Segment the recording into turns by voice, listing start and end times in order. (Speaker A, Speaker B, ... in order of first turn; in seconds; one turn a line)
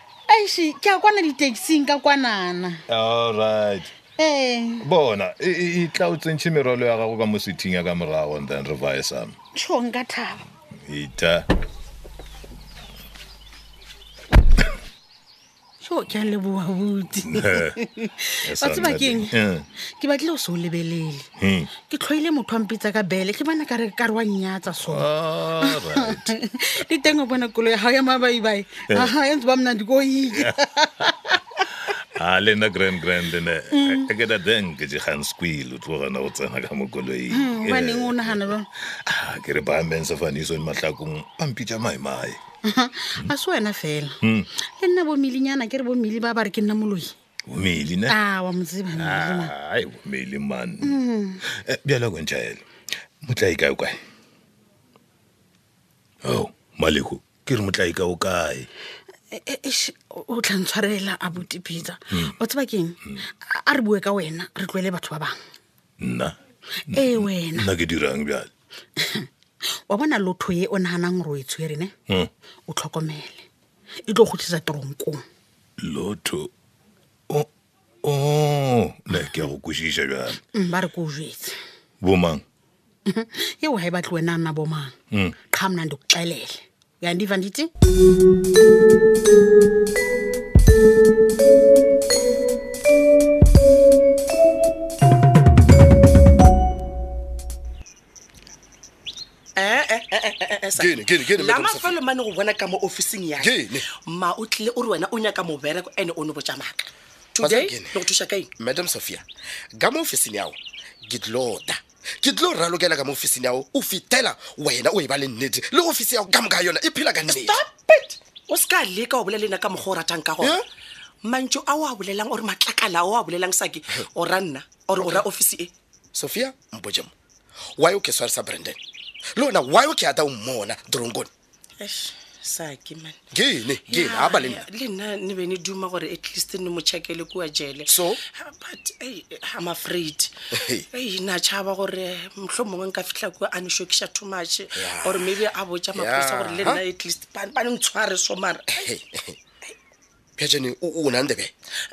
Speaker A: 0.3-2.8
Speaker B: 2.9-3.9
Speaker A: 4.2-4.8
Speaker B: 4.8-9.3
Speaker A: 9.6-10.4
Speaker B: 10.9-11.5
Speaker A: 15.8-19.3
Speaker B: 17.3-17.7
Speaker B: 18.4-19.7
Speaker A: 20.0-21.3
Speaker B: 21.4-21.7
Speaker A: 21.9-31.4
Speaker B: 24.7-26.3
Speaker B: 30.3-31.3
Speaker B: 32.2-42.4
Speaker A: 33.7-34.0
Speaker A: 37.3-38.7
Speaker A: 42.7-44.2
Speaker B: 44.2-44.5
Speaker A: 44.8-47.1
Speaker B: 47.5-48.2
Speaker A: 48.1-49.5
Speaker B: 49.0-51.0
Speaker A: 50.8-51.4
Speaker B: 51.6-52.6
Speaker B: 53.2-54.0
Speaker B: 56.2-58.7
Speaker A: 59.3-65.3
Speaker B: 66.0-66.3
Speaker B: 66.9-68.5
Speaker A: 66.9-67.7
Speaker A: 69.0-69.3
Speaker A: 69.9-71.9
Speaker A: 72.7-73.5
Speaker A: 74.1-75.2
Speaker B: 75.8-76.5
Speaker B: 78.0-80.4
Speaker A: 80.5-81.5
Speaker B: 82.0-82.4
Speaker A: 83.1-84.9
Speaker A: 85.5-87.7
Speaker C: 99.6-103.5
Speaker D: 100.8-102.0
Speaker D: 103.4-103.9
Speaker C: 104.1-108.5
Speaker D: 107.4-108.0
Speaker D: 108.6-117.6
Speaker C: 117.3-120.6
Speaker C: 121.2-125.7
Speaker D: 125.0-125.2
Speaker D: 126.1-127.1
Speaker D: 127.8-128.8
Speaker D: 129.4-131.3
Speaker C: 131.8-133.2
Speaker D: 133.3-134.6
Speaker C: 133.9-140.3
Speaker D: 137.9-138.2
Speaker D: 140.6-140.9
Speaker C: 140.9-148.8
Speaker D: 144.8-145.4
Speaker D: 145.9-146.8
Speaker D: 148.8-149.4
Speaker D: 150.4-151.5